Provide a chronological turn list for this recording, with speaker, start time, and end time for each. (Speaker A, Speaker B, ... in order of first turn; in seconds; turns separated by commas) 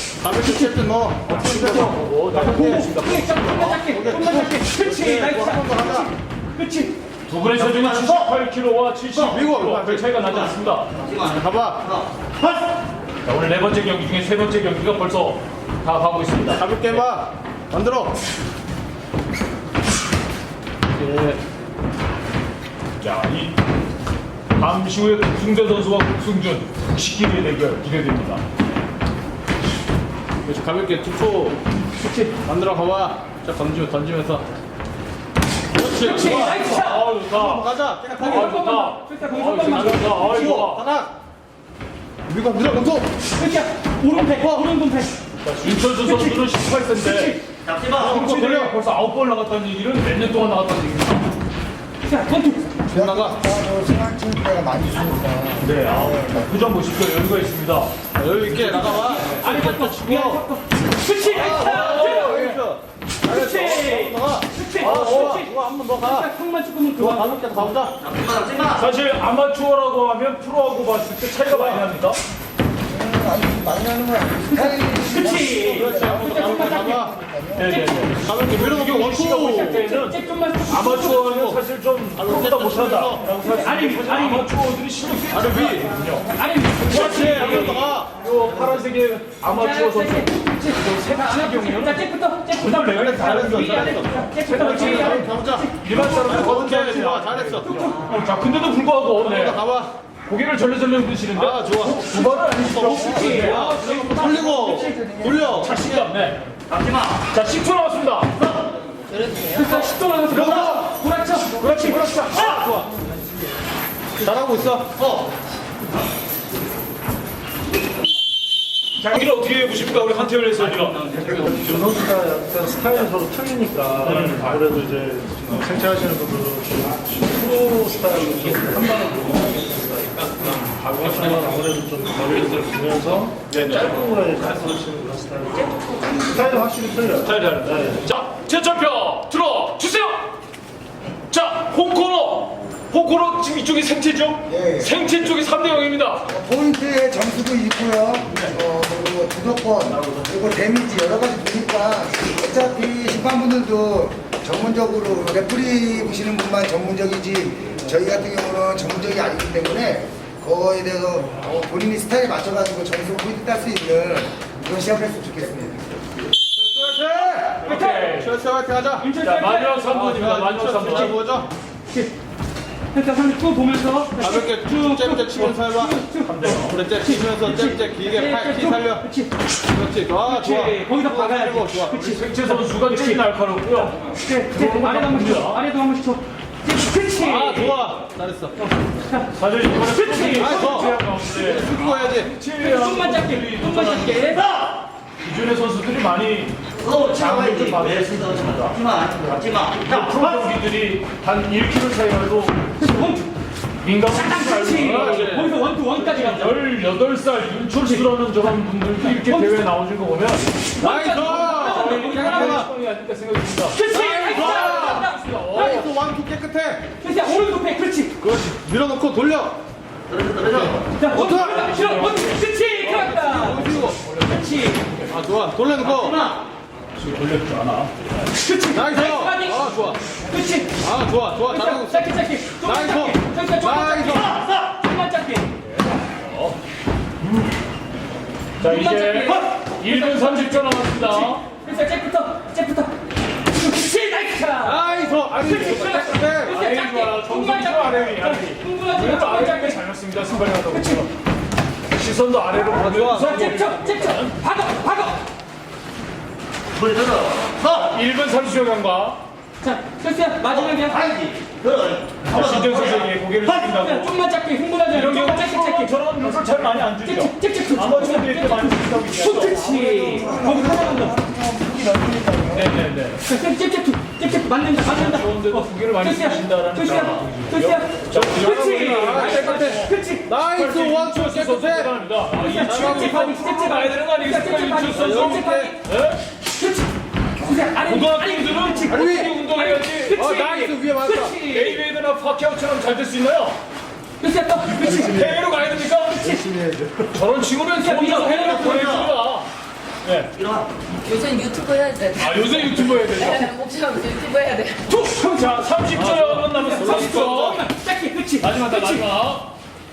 Speaker A: 0.2-6.1, Speaker B: 1.3-3.7, Speaker C: 2.4-7.0, Speaker B: 7.3-10.9, Speaker A: 9.2-10.2, Speaker D: 11.0-11.3, Speaker A: 11.3-11.9, Speaker B: 13.2-17.1, Speaker A: 16.5-18.2, Speaker A: 21.0-21.4, Speaker B: 23.0-23.6, Speaker B: 24.6-28.4, Speaker A: 30.4-31.6, Speaker C: 32.0-32.3, Speaker A: 32.4-34.5, Speaker A: 35.8-38.7, Speaker C: 35.9-37.1, Speaker B: 36.2-37.7, Speaker C: 38.2-40.3, Speaker B: 38.2-40.9, Speaker A: 40.0-41.1, Speaker A: 42.3-43.2, Speaker C: 43.4-45.1, Speaker A: 44.1-44.7, Speaker B: 45.4-47.4, Speaker C: 46.0-46.4, Speaker C: 47.0-47.4, Speaker D: 47.7-47.9, Speaker B: 47.9-51.3, Speaker A: 48.1-48.8, Speaker C: 52.0-52.8, Speaker E: 52.9-56.5, Speaker A: 52.9-53.4, Speaker B: 55.6-57.9, Speaker A: 58.2-60.4, Speaker C: 58.6-62.5, Speaker A: 61.2-66.3, Speaker B: 61.4-62.6, Speaker C: 63.2-67.5, Speaker B: 64.8-65.3, Speaker A: 67.0-68.0, Speaker D: 68.1-68.7, Speaker B: 68.7-72.2, Speaker A: 71.5-71.8, Speaker E: 72.9-77.8, Speaker C: 74.5-77.1, Speaker A: 75.6-77.1, Speaker B: 77.6-86.4, Speaker C: 77.6-77.9, Speaker A: 78.2-79.8, Speaker C: 79.5-81.3, Speaker A: 81.0-81.6, Speaker A: 82.2-83.3, Speaker C: 83.4-84.5, Speaker A: 85.3-86.0, Speaker C: 86.3-87.9, Speaker A: 86.8-88.2, Speaker B: 86.9-93.9, Speaker C: 89.5-96.1, Speaker A: 93.0-97.9, Speaker B: 94.5-95.3, Speaker B: 95.8-99.6, Speaker C: 97.6-98.1, Speaker A: 99.2-99.9, Speaker B: 100.3-103.7, Speaker A: 101.3-106.0, Speaker C: 102.8-105.1, Speaker B: 105.6-106.4, Speaker D: 106.7-107.1, Speaker B: 107.3-108.3, Speaker C: 109.4-112.2, Speaker A: 110.3-110.9, Speaker A: 111.6-113.1, Speaker A: 114.1-114.9, Speaker B: 119.0-121.6, Speaker F: 121.4-129.4, Speaker B: 124.0-124.8, Speaker F: 130.4-137.9, Speaker B: 133.5-133.9, Speaker B: 137.2-140.3, Speaker B: 141.3-146.3, Speaker E: 144.5-145.1, Speaker E: 146.3-166.0, Speaker A: 166.5-171.5, Speaker C: 167.6-168.1, Speaker B: 167.7-168.3, Speaker C: 169.0-170.3, Speaker B: 169.2-171.1, Speaker C: 172.9-176.5, Speaker A: 174.2-179.1, Speaker B: 176.2-176.8, Speaker C: 177.4-179.3, Speaker A: 179.7-182.1, Speaker C: 180.3-183.2, Speaker B: 182.0-185.6, Speaker C: 184.0-187.7, Speaker A: 187.2-188.7, Speaker B: 187.4-188.0, Speaker C: 189.1-190.9, Speaker B: 189.3-194.4, Speaker A: 190.4-192.3, Speaker C: 192.6-194.5, Speaker B: 195.2-202.9, Speaker D: 197.0-200.0, Speaker C: 202.8-203.3, Speaker B: 203.8-205.4, Speaker C: 204.1-206.6, Speaker A: 204.8-205.5, Speaker B: 206.0-215.9, Speaker C: 209.2-209.6, Speaker A: 210.8-212.7, Speaker C: 210.8-212.7, Speaker C: 213.7-215.9, Speaker A: 213.9-216.9, Speaker C: 217.0-218.2, Speaker A: 218.2-219.6, Speaker D: 220.1-220.5, Speaker A: 220.4-221.7, Speaker C: 220.9-224.8, Speaker B: 221.1-225.1, Speaker A: 222.9-224.0, Speaker A: 225.1-226.2, Speaker B: 227.0-228.1, Speaker C: 228.3-230.8, Speaker A: 228.7-230.0, Speaker A: 230.8-234.4, Speaker C: 231.4-235.5, Speaker B: 235.6-236.6, Speaker B: 238.6-241.4, Speaker C: 238.6-242.9, Speaker C: 243.5-249.8, Speaker A: 244.6-246.6, Speaker B: 246.0-251.1, Speaker C: 250.5-251.0, Speaker B: 251.9-254.4, Speaker A: 252.8-253.3, Speaker C: 253.0-255.2, Speaker D: 256.8-257.5, Speaker B: 257.6-259.2, Speaker C: 259.6-261.1, Speaker D: 261.3-262.6, Speaker B: 262.2-264.1, Speaker C: 263.5-265.9, Speaker B: 264.9-270.2, Speaker C: 267.0-271.2, Speaker E: 269.9-272.8, Speaker B: 272.5-273.2, Speaker C: 273.2-280.3, Speaker B: 274.8-286.2, Speaker A: 278.2-283.4, Speaker C: 282.4-285.8, Speaker A: 284.9-285.7, Speaker C: 286.6-286.9, Speaker C: 287.4-291.7, Speaker B: 287.8-290.2, Speaker A: 288.9-289.4, Speaker A: 290.1-291.7, Speaker B: 291.4-293.6, Speaker C: 294.2-295.4, Speaker B: 294.8-296.4, Speaker E: 296.6-296.9, Speaker B: 297.1-299.5, Speaker C: 297.8-298.9, Speaker B: 300.0-300.3, Speaker D: 300.4-302.6, Speaker B: 302.1-303.6, Speaker D: 303.2-304.9, Speaker C: 304.9-309.0, Speaker B: 305.2-307.6, Speaker A: 306.0-307.6, Speaker B: 308.4-309.5